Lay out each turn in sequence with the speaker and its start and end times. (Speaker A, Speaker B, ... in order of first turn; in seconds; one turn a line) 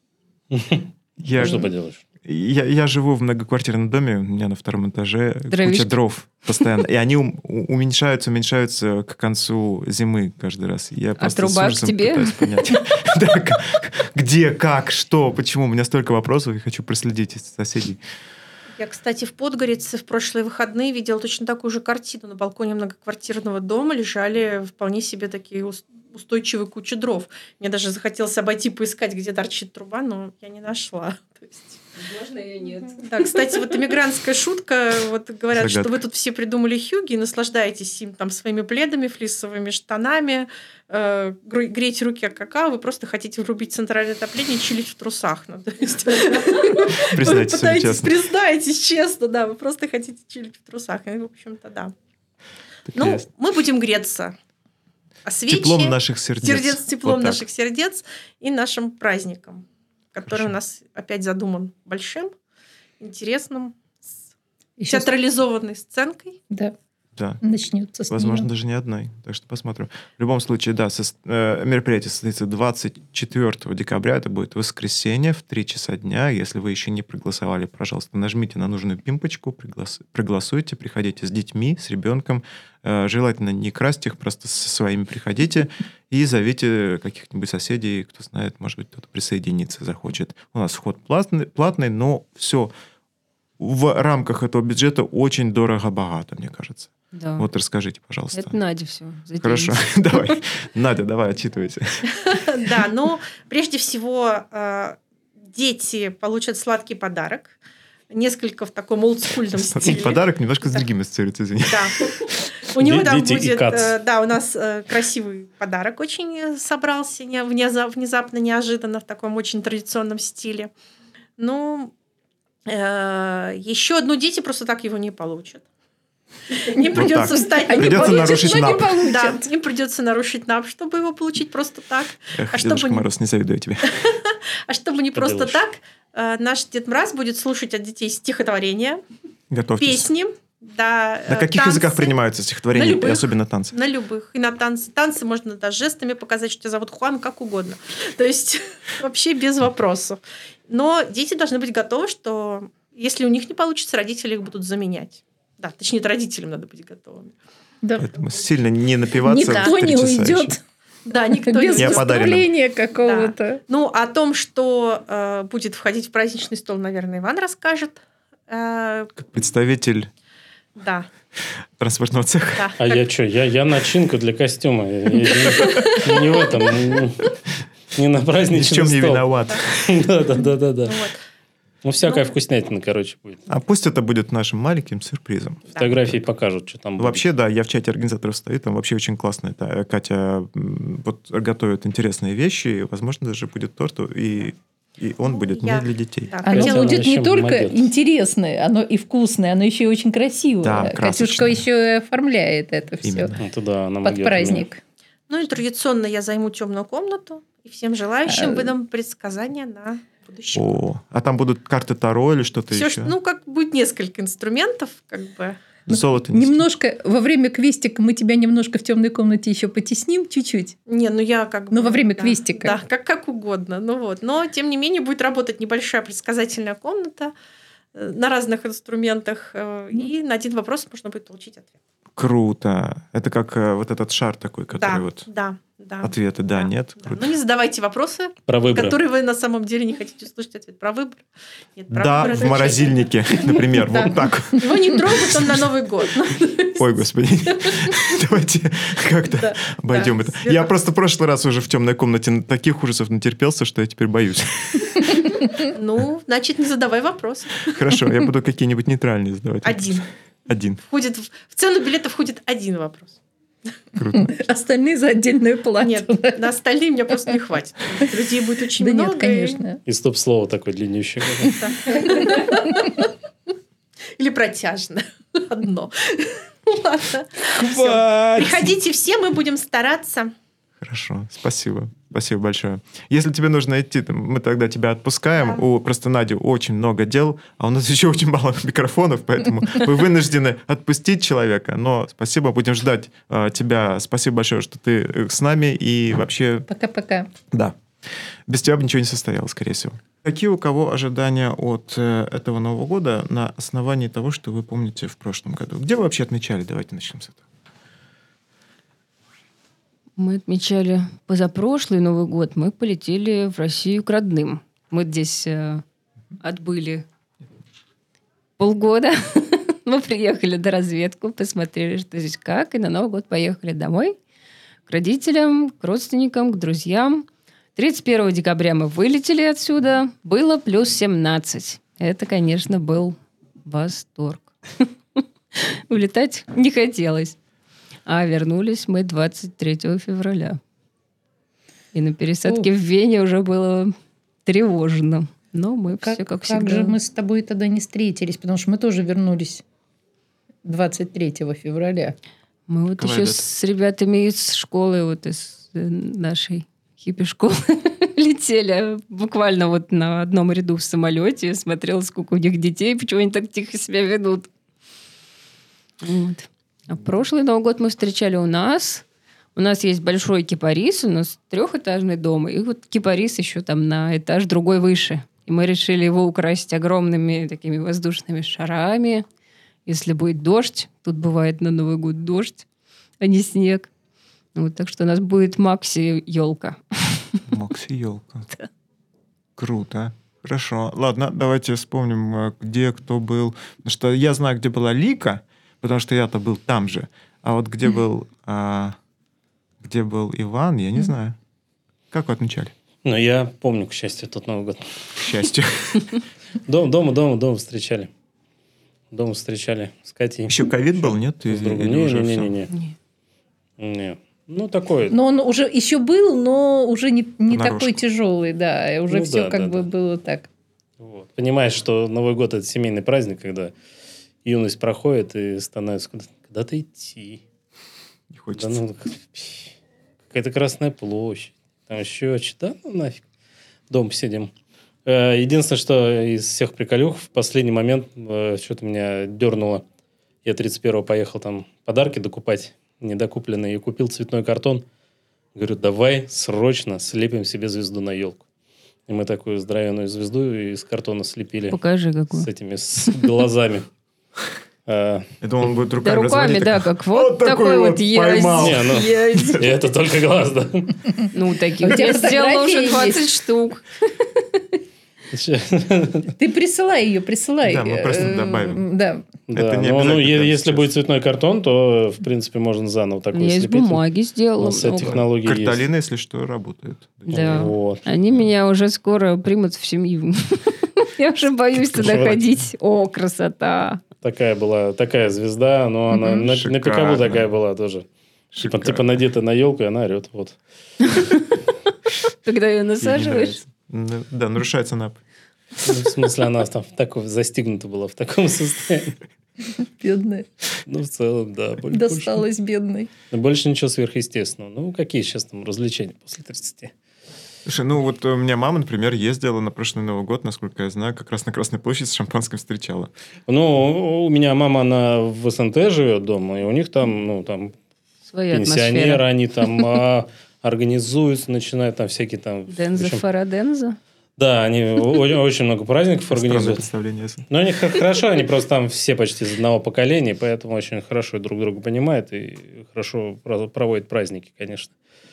Speaker A: 0.5-2.0
Speaker B: 1.2-1.7
Speaker B: 2.2-18.0
Speaker C: 5.5-6.0
Speaker C: 11.2-12.8
Speaker D: 18.8-31.8
Speaker C: 32.0-33.8
Speaker D: 33.0-51.9
Speaker B: 35.5-36.0
Speaker B: 46.9-48.1
Speaker B: 52.9-53.3
Speaker D: 53.0-54.4
Speaker D: 55.2-62.3
Speaker B: 55.5-57.5
Speaker B: 60.2-60.6
Speaker D: 63.0-64.1
Speaker E: 64.8-65.1
Speaker D: 64.9-66.4
Speaker B: 67.2-67.4
Speaker E: 67.4-68.5
Speaker B: 68.1-92.7
Speaker B: 93.6-98.6
Speaker C: 97.1-97.5
Speaker C: 98.3-100.4
Speaker B: 99.4-102.1
Speaker D: 102.2-105.0
Speaker D: 105.5-107.5
Speaker D: 108.1-110.2
Speaker B: 109.6-112.3
Speaker D: 111.7-112.1
Speaker D: 112.7-120.7
Speaker A: 112.8-114.0
Speaker D: 121.4-121.9
Speaker D: 122.7-125.7
Speaker D: 126.5-133.1
Speaker E: 126.8-129.5
Speaker B: 126.9-129.1
Speaker B: 132.3-133.9
Speaker D: 133.9-139.0
Speaker A: 135.1-135.6
Speaker B: 139.5-140.1
Speaker D: 139.8-142.1
Speaker B: 141.3-143.8
Speaker D: 142.7-157.3
Speaker E: 157.8-158.1
Speaker B: 158.0-160.6
Speaker E: 159.2-160.6
Speaker D: 159.4-159.7
Speaker D: 161.1-162.3
Speaker E: 161.3-163.6
Speaker B: 161.8-162.5
Speaker D: 163.0-169.1
Speaker B: 169.2-170.1
Speaker D: 170.8-171.1
Speaker B: 171.8-172.7
Speaker D: 172.6-173.0
Speaker A: 172.8-177.3
Speaker D: 175.8-176.2
Speaker A: 177.9-181.0
Speaker B: 178.5-180.0
Speaker D: 180.8-181.2
Speaker A: 181.8-183.4
Speaker D: 182.0-182.3
Speaker B: 183.5-186.2
Speaker A: 185.8-187.2
Speaker B: 187.0-196.4
Speaker D: 195.3-197.1
Speaker E: 196.4-203.3
Speaker A: 196.5-197.8
Speaker B: 200.6-201.6
Speaker B: 203.0-203.4
Speaker A: 203.4-204.7
Speaker E: 204.0-204.8
Speaker D: 205.3-210.8
Speaker E: 208.3-208.7
Speaker B: 210.5-213.2
Speaker D: 212.7-215.6
Speaker B: 215.9-216.7
Speaker E: 215.9-220.8
Speaker D: 220.9-227.3
Speaker E: 221.7-222.8
Speaker D: 227.9-231.7
Speaker B: 232.2-235.3
Speaker D: 234.8-247.0
Speaker B: 236.0-237.3
Speaker A: 238.5-239.0
Speaker B: 241.9-245.6
Speaker B: 246.8-255.2
Speaker D: 247.6-248.0
Speaker D: 249.3-250.7
Speaker D: 255.5-257.7
Speaker B: 257.6-260.8
Speaker D: 259.6-260.0
Speaker D: 260.8-263.2
Speaker B: 263.9-264.4
Speaker E: 264.1-266.5
Speaker D: 265.8-269.6
Speaker E: 268.8-269.8
Speaker A: 269.9-271.6
Speaker D: 271.5-273.1
Speaker E: 272.2-272.5
Speaker D: 274.2-280.3
Speaker A: 277.8-278.5
Speaker B: 280.8-296.7
Speaker E: 296.7-297.3
Speaker B: 298.5-307.4
Speaker C: 310.2-315.8
Speaker C: 316.4-317.0
Speaker C: 318.6-324.2
Speaker C: 324.9-334.9
Speaker C: 335.6-337.4
Speaker C: 338.1-340.6
Speaker C: 341.9-343.9
Speaker C: 344.4-347.0
Speaker E: 346.0-349.6
Speaker E: 350.6-352.2
Speaker C: 352.7-364.5
Speaker B: 353.0-353.5
Speaker C: 366.0-369.0
Speaker C: 369.6-379.2
Speaker C: 379.9-382.6
Speaker C: 383.2-383.9
Speaker C: 384.6-387.4
Speaker B: 387.5-388.5
Speaker B: 389.6-399.0
Speaker B: 399.8-401.4
Speaker B: 402.1-402.7
Speaker A: 403.0-405.2
Speaker B: 405.2-406.2
Speaker A: 406.7-408.1
Speaker A: 409.1-412.7
Speaker B: 410.5-412.6
Speaker A: 413.8-415.2
Speaker E: 415.1-420.5
Speaker B: 417.5-418.0
Speaker A: 419.1-419.9
Speaker A: 421.0-423.7
Speaker A: 424.4-427.4
Speaker B: 428.3-428.8
Speaker A: 428.6-429.8
Speaker A: 430.3-433.2
Speaker A: 433.9-434.5
Speaker A: 435.1-439.9
Speaker A: 440.4-444.9
Speaker A: 445.6-448.4
Speaker A: 449.1-451.8
Speaker C: 451.7-452.5
Speaker A: 452.3-453.9
Speaker A: 454.9-455.3
Speaker B: 455.4-459.7
Speaker C: 456.0-459.6
Speaker A: 458.6-461.0
Speaker C: 461.3-464.6
Speaker E: 461.8-463.3
Speaker A: 465.3-466.3
Speaker E: 466.4-469.3
Speaker B: 467.6-468.8
Speaker A: 469.5-474.0
Speaker B: 469.5-470.9
Speaker C: 473.3-475.2
Speaker A: 474.6-475.9
Speaker B: 475.1-477.7
Speaker A: 477.3-478.0
Speaker C: 477.3-484.1
Speaker A: 481.9-482.5
Speaker A: 484.2-488.1
Speaker E: 486.1-486.4
Speaker B: 486.4-487.5
Speaker B: 488.5-489.1
Speaker A: 488.6-490.6
Speaker C: 491.1-491.5
Speaker C: 492.4-493.6
Speaker B: 493.0-495.2
Speaker A: 495.8-499.2
Speaker E: 499.8-500.5
Speaker A: 500.9-502.4
Speaker E: 501.9-503.1
Speaker A: 503.3-506.9
Speaker B: 507.7-513.1
Speaker A: 513.5-517.7
Speaker C: 518.3-519.2
Speaker A: 518.5-523.2
Speaker C: 522.7-524.0
Speaker A: 524.4-526.9
Speaker B: 526.3-527.5
Speaker A: 527.5-535.0